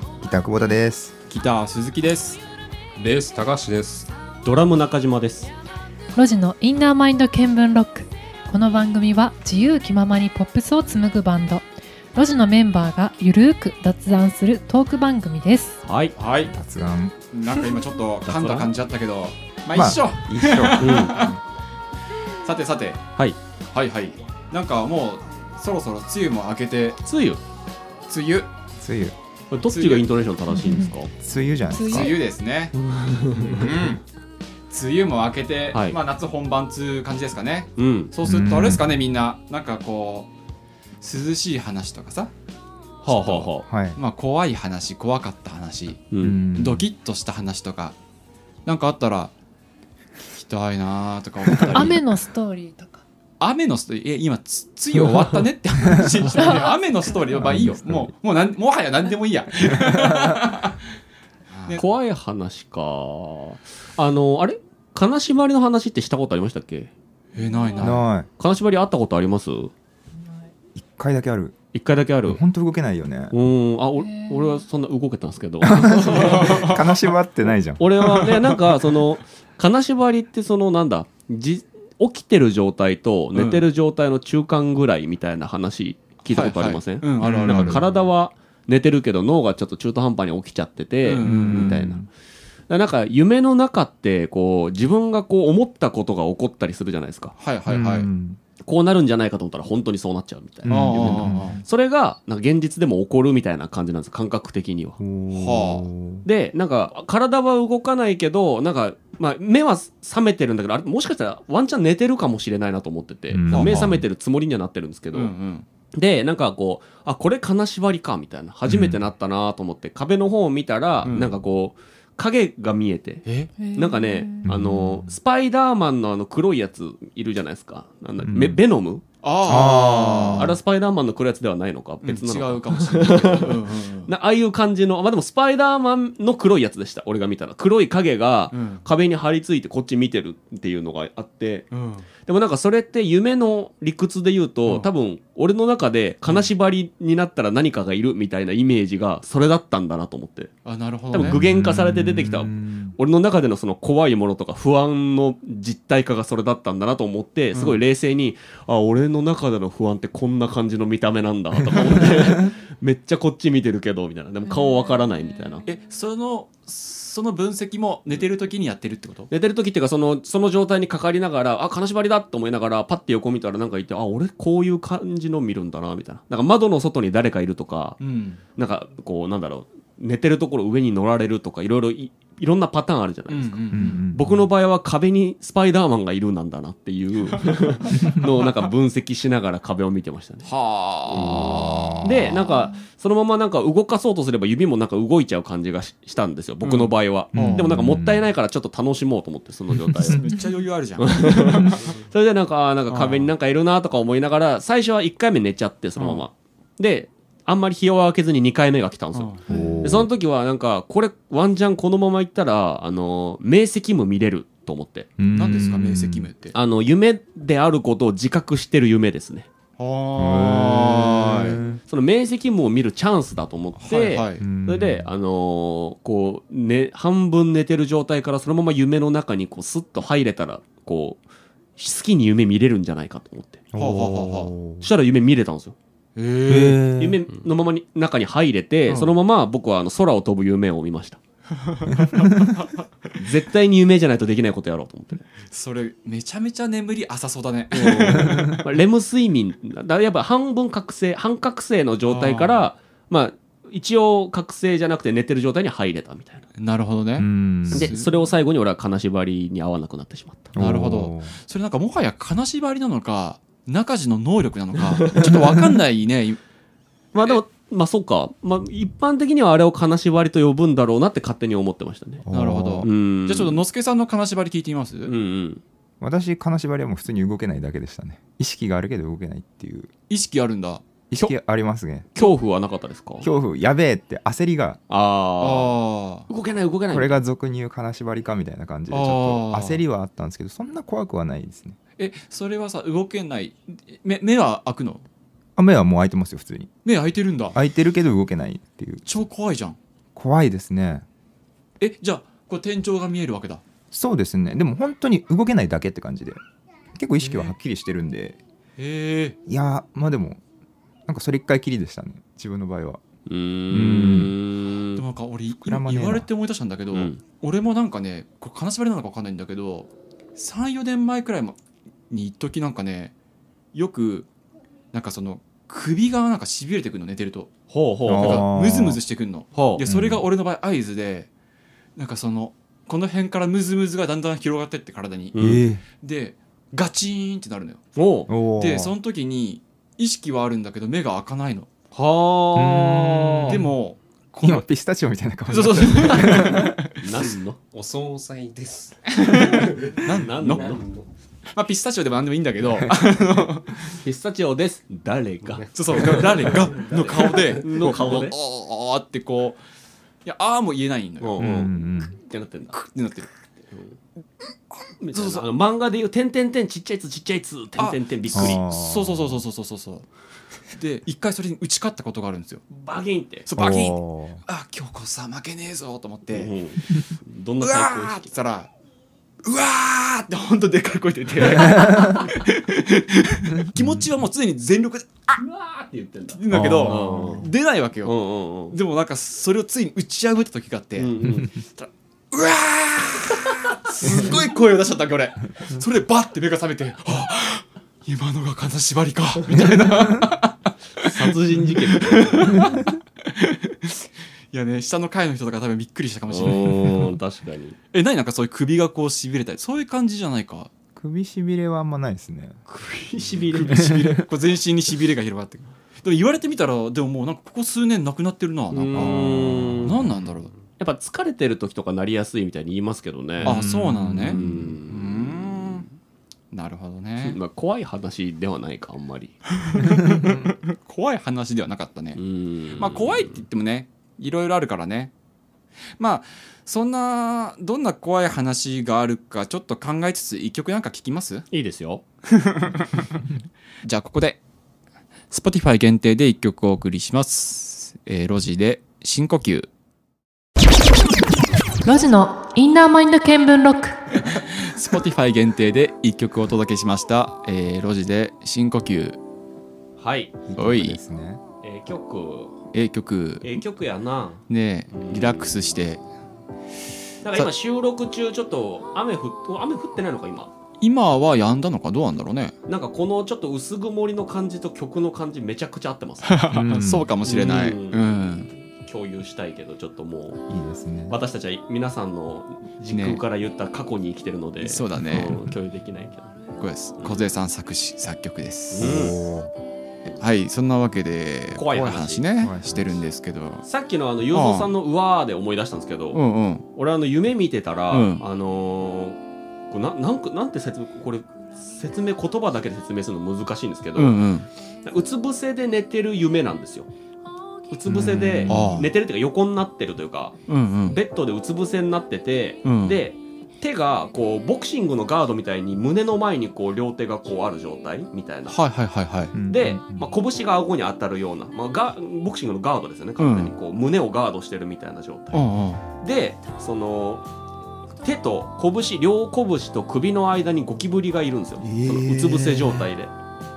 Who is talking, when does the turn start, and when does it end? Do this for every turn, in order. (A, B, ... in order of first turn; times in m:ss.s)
0:00.2-0:01.1 A
0:01.3-0:02.4 B
0:03.0-0:04.1 C
0:04.4-0:05.5 D
0:06.1-0:15.8 E
0:15.8-0:16.1 D
0:16.2-0:16.5 B
0:16.5-0:17.2 A
0:17.3-0:21.4 B
0:18.2-0:18.7 D
0:19.7-0:21.4 A
0:20.8-0:21.2 D
0:22.4-0:23.0 B
0:23.7-0:27.0 B
0:27.0-0:27.4 D
0:28.1-0:28.5 B
0:28.8-0:29.2 A
0:29.5-0:31.1 D
0:29.7-0:30.0 B
0:30.5-0:30.9 E
0:31.2-0:32.1 A
0:31.7-0:32.1 E
0:31.9-0:32.7 B
0:32.7-0:33.7 D
0:33.4-0:34.0 B
0:34.7-0:40.3 B
0:35.7-0:36.0 D
0:37.8-0:38.1 D
0:38.2-0:38.9 A
0:41.0-0:42.3 B
0:43.0-0:43.6 D
0:43.1-0:46.0 B
0:43.6-0:44.0 A
0:46.1-0:46.4 D
0:46.2-0:46.9 A
0:46.5-0:47.9 B
0:48.6-0:49.3 B
0:50.3-0:52.1 B
0:51.7-0:53.0 E
0:53.4-1:00.8 B
0:56.3-0:56.7 E
0:57.3-0:58.1 A
0:59.6-1:00.3 A
1:01.5-1:01.8 B
1:01.7-1:06.9 D
1:07.3-1:08.0 B
1:07.8-1:08.3 A
1:07.8-1:09.7 D
1:10.7-1:11.5 A
1:11.7-1:12.4 D
1:12.2-1:13.3 A
1:13.3-1:16.7 D
1:15.7-1:17.8 A
1:16.1-1:16.9 B
1:17.8-1:32.0 D
1:23.3-1:23.7 B
1:26.2-1:27.9 B
1:27.2-1:27.9 A
1:31.0-1:31.8 B
1:31.2-1:32.1 A
1:32.7-1:37.3 D
1:37.4-1:38.1 B
1:37.7-1:38.4 A
1:38.6-1:45.0 D
1:40.6-1:41.6 A
1:40.7-1:41.6 B
1:45.0-1:46.2 A
1:45.3-1:45.9 B
1:46.2-1:55.3 D
1:53.3-1:54.0 A
1:53.5-1:53.8 B
1:55.1-1:55.6 B
1:55.9-2:09.0 D
1:58.7-1:59.0 A
2:01.0-2:01.3 B
2:03.2-2:03.5 B
2:03.6-2:04.4 E
2:04.4-2:05.2 A
2:08.2-2:08.6 A
2:09.2-2:10.6 B
2:09.4-2:10.6 A
2:10.2-2:21.7 D
2:12.0-2:14.1 B
2:18.5-2:18.8 B
2:21.7-2:22.1 B
2:22.2-2:30.5 D
2:24.6-2:24.9 B
2:26.2-2:26.5 B
2:30.6-2:31.4 B
2:31.1-2:45.7 D
2:31.1-2:33.0 A
2:37.5-2:37.8 B
2:45.6-2:49.3 B
2:49.3-2:58.0 D
2:58.0-2:58.4 B
2:58.5-3:10.5 D
3:03.3-3:04.0 B
3:03.7-3:04.5 A
3:10.4-3:12.0 B
3:11.1-3:20.2 D
3:11.2-3:12.6 A
3:16.6-3:17.7 B
3:17.3-3:18.3 A
3:20.0-3:21.8 B
3:21.0-3:35.1 D
3:22.9-3:23.3 B
3:26.0-3:26.2 B
3:29.1-3:29.4 B
3:29.5-3:30.1 A
3:35.2-3:36.3 A
3:35.3-3:36.5 B
3:36.5-3:39.5 D
3:39.8-3:41.6 B
3:40.2-3:41.8 A
3:41.9-3:51.2 D
3:43.8-3:44.4 B
3:44.4-3:45.1 A
3:51.8-3:53.6 D
3:53.7-3:54.9 A
3:53.8-3:54.5 B
3:54.8-3:55.8 D
3:56.2-3:56.8 B
3:56.5-3:57.2 A
3:56.8-4:01.2 D
3:58.9-3:59.2 B
4:01.6-4:03.1 B
4:03.2-4:05.2 D
4:05.5-4:08.6 B
4:07.7-4:16.4 D
4:08.1-4:08.5 A
4:12.0-4:12.7 B
4:16.6-4:18.1 B
4:17.2-4:17.9 A
4:17.7-4:20.5 D
4:20.5-4:21.4 A
4:20.5-4:26.4 B
4:24.9-4:25.4 D
4:27.1-4:32.2 D
4:32.2-4:32.9 A
4:32.3-4:35.1 B
4:32.8-4:33.6 D
4:35.0-4:35.6 D
4:36.0-4:39.9 A
4:40.1-4:41.3 B
4:41.1-4:42.1 A
4:42.1-4:43.3 D
4:43.2-4:44.8 A
4:44.9-4:45.7 D
4:45.4-4:46.3 B
4:46.3-4:47.2 D
4:46.9-4:51.8 A
4:48.9-4:49.8 B
4:52.0-4:55.0 B
4:55.6-4:56.7 A
4:56.8-4:57.6 B
4:57.5-4:59.2 A
4:59.0-4:59.8 B
5:00.1-5:01.0 A
5:01.8-5:03.6 B
5:03.9-5:06.4 A
5:07.0-5:08.4 A
5:07.2-5:07.5 B
5:08.8-5:09.4 B
5:09.5-5:10.4 A
5:11.1-5:13.0 A
5:13.3-5:15.0 D
5:13.7-5:14.3 A
5:15.0-5:21.6 B
5:15.6-5:16.3 A
5:16.9-5:17.2 D
5:22.1-5:23.1 B
5:23.7-5:24.3 B
5:24.9-5:27.5 B
5:27.7-5:28.4 D
5:28.0-5:29.0 A
5:28.1-5:31.3 B
5:29.5-5:29.8 D
5:29.8-5:30.2 A
5:32.0-5:35.4 B
5:35.3-5:35.6 D
5:35.3-5:35.8 A
5:36.0-5:37.8 B
5:37.9-5:38.3 D
5:38.3-5:38.9 A
5:38.6-5:41.7 B
5:41.9-5:43.6 D
5:42.5-5:43.7 A
5:43.2-5:44.7 B
5:44.4-5:46.7 A
5:45.5-5:47.0 B
5:47.0-5:47.6 D
5:47.7-5:51.1 C
5:49.2-5:50.8 B
5:50.2-5:50.8 D
5:51.5-5:53.9 B
5:52.6-5:53.4 A
5:54.0-5:58.4 D
5:55.5-5:57.6 C
5:55.7-5:59.6 B
6:00.2-6:01.7 B
6:01.2-6:02.8 D
6:01.4-6:02.1 A
6:02.7-6:03.3 B
6:03.6-6:04.0 D
6:05.0-6:08.6 D
6:05.1-6:05.5 B
6:07.8-6:10.0 B
6:08.3-6:09.4 A
6:10.7-6:12.6 B
6:12.7-6:13.5 D
6:13.5-6:16.5 B
6:13.6-6:14.4 A
6:16.3-6:18.3 D
6:17.6-6:18.7 B
6:19.4-6:25.4 B
6:23.8-6:24.0 A
6:25.4-6:27.5 D
6:26.3-6:28.1 B
6:26.5-6:27.5 A
6:28.0-6:28.8 D
6:28.7-6:41.1 B
6:31.0-6:31.5 D
6:39.6-6:40.2 A
6:41.0-6:42.6 D
6:41.9-6:47.1 B
6:46.3-6:47.8 D
6:47.9-6:50.7 B
6:51.0-6:52.6 A
6:52.7-6:53.8 D
6:53.5-7:00.5 B
6:53.6-6:54.2 A
6:58.7-7:00.0 D
6:58.9-7:00.1 A
7:00.8-7:03.6 D
7:03.4-7:04.6 A
7:03.4-7:05.8 B
7:04.2-7:05.8 D
7:06.5-7:07.4 B
7:07.2-7:09.4 D
7:09.6-7:12.2 B
7:10.1-7:10.4 A
7:12.1-7:13.4 D
7:12.7-7:15.1 B
7:16.0-7:21.4 B
7:21.5-7:22.0 D
7:22.3-7:23.2 B
7:23.8-7:24.4 B
7:25.3-7:29.7 B
7:31.8-7:33.9 E
7:34.3-7:39.2 B
7:40.0-7:40.3 D
7:40.5-7:41.4 A
7:40.6-7:41.0 B
7:41.6-7:42.6 D
7:42.7-7:43.6 B
7:43.4-7:45.6 D
7:44.5-7:46.0 B
7:47.2-7:50.5 D
7:50.8-7:52.5 B
7:52.7-7:56.4 D
7:56.2-7:58.5 B
7:56.5-7:57.1 A
7:57.2-7:58.2 D
7:58.7-8:00.4 D
8:00.5-8:01.2 A
8:01.1-8:06.3 D
8:02.9-8:03.2 B
8:04.6-8:05.4 B
8:06.6-8:09.0 B
8:07.0-8:07.2 D
8:08.7-8:09.1 D
8:08.8-8:09.5 A
8:10.2-8:13.6 B
8:11.5-8:12.2 D
8:11.7-8:12.9 A
8:13.6-8:16.2 D
8:14.3-8:14.7 B
8:16.1-8:16.6 B
8:16.7-8:19.2 D
8:17.9-8:18.2 B
8:19.7-8:24.2 D
8:23.9-8:24.5 B
8:24.8-8:26.9 D
8:27.7-8:38.6 D
8:27.9-8:28.9 B
8:28.4-8:28.7 A
8:30.5-8:31.0 B
8:32.6-8:33.0 B
8:38.5-8:39.3 B
8:39.3-8:40.1 A
8:39.5-8:47.3 D
8:43.2-8:43.5 B
8:45.3-8:45.8 B
8:48.0-8:53.1 D
8:51.6-8:52.9 A